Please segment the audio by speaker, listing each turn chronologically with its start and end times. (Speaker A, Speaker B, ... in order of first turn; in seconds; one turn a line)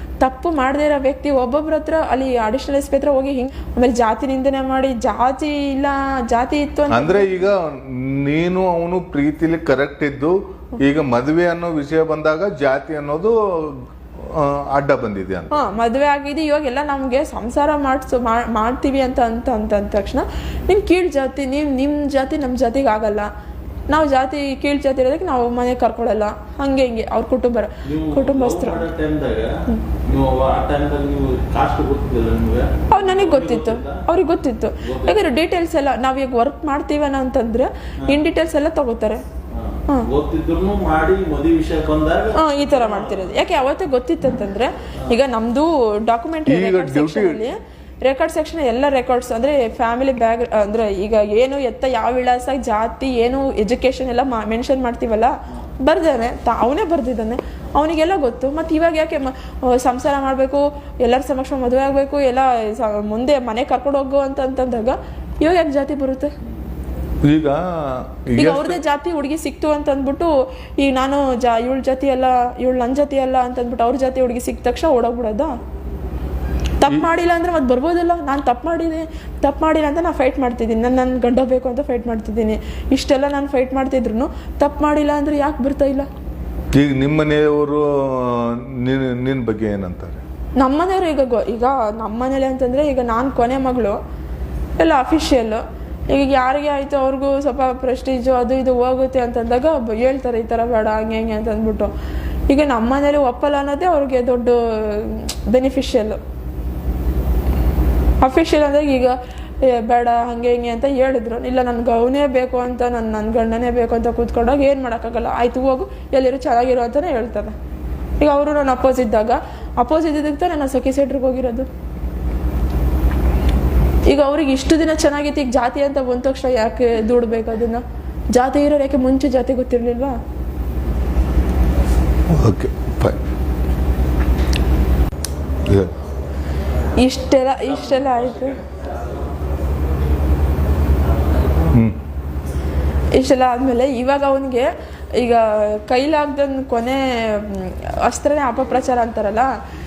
Speaker A: 0.2-7.3
Speaker B: 6.9-15.5
Speaker A: 15.5-23.3
Speaker A: 23.9-28.9
Speaker C: 27.8-34.0
Speaker A: 32.9-39.2
Speaker C: 34.8-35.1
Speaker C: 39.5-43.3
Speaker A: 42.3-66.3
Speaker B: 46.5-47.4
Speaker B: 67.2-68.8
Speaker A: 68.4-75.6
Speaker A: 76.8-86.1
Speaker B: 86.7-90.2
Speaker A: 90.6-94.0
Speaker A: 94.8-101.9
Speaker A: 102.5-106.2
Speaker A: 108.2-117.5
Speaker A: 118.2-121.7
Speaker A: 124.1-127.8
Speaker A: 128.3-130.2
Speaker B: 132.3-133.2
Speaker B: 135.7-135.9
Speaker A: 136.9-138.6
Speaker C: 138.0-138.5
Speaker A: 143.1-149.5